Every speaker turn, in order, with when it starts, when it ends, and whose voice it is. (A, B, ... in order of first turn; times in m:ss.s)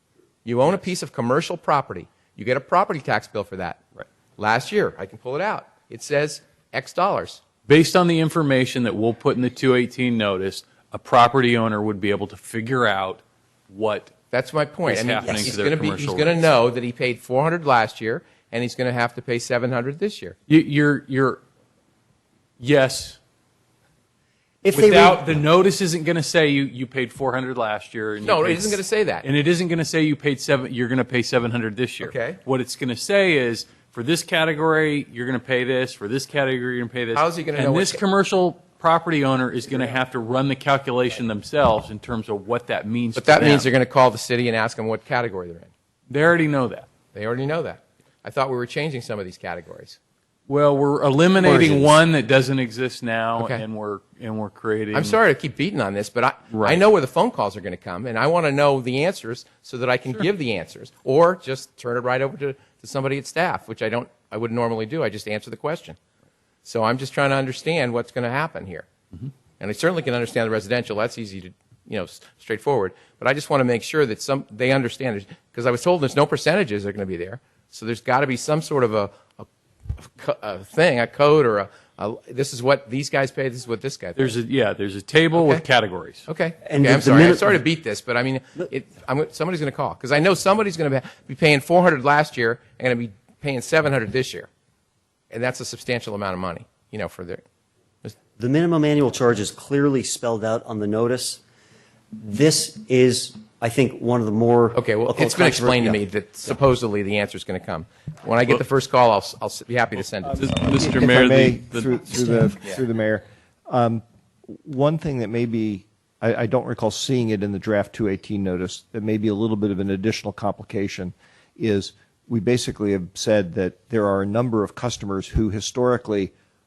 0:00.4-0:07.4 A
0:07.7-0:14.1 B
0:14.3-0:20.4 A
0:14.8-0:16.5 B
0:20.5-0:21.4 B
0:22.6-0:23.2 B
0:24.6-0:25.4 C
0:24.7-0:43.7 B
0:28.2-0:29.2 A
0:32.0-0:32.4 A
0:37.1-0:38.0 A
0:43.2-0:45.7 A
0:46.1-0:46.9 B
0:47.1-0:50.0 A
0:50.5-0:55.2 B
0:53.4-0:53.6 A
0:54.9-1:06.0 A
0:56.5-0:56.8 B
1:06.6-1:08.9 A
1:09.6-1:19.5 A
1:20.0-1:24.3 A
1:24.2-1:26.2 B
1:25.4-1:25.6 A
1:26.3-1:34.5 A
1:26.6-1:27.6 C
1:35.3-1:37.4 A
1:38.4-1:41.4 C
1:42.1-1:46.5 C
1:44.8-1:50.4 A
1:50.3-1:52.5 B
1:50.6-2:06.3 D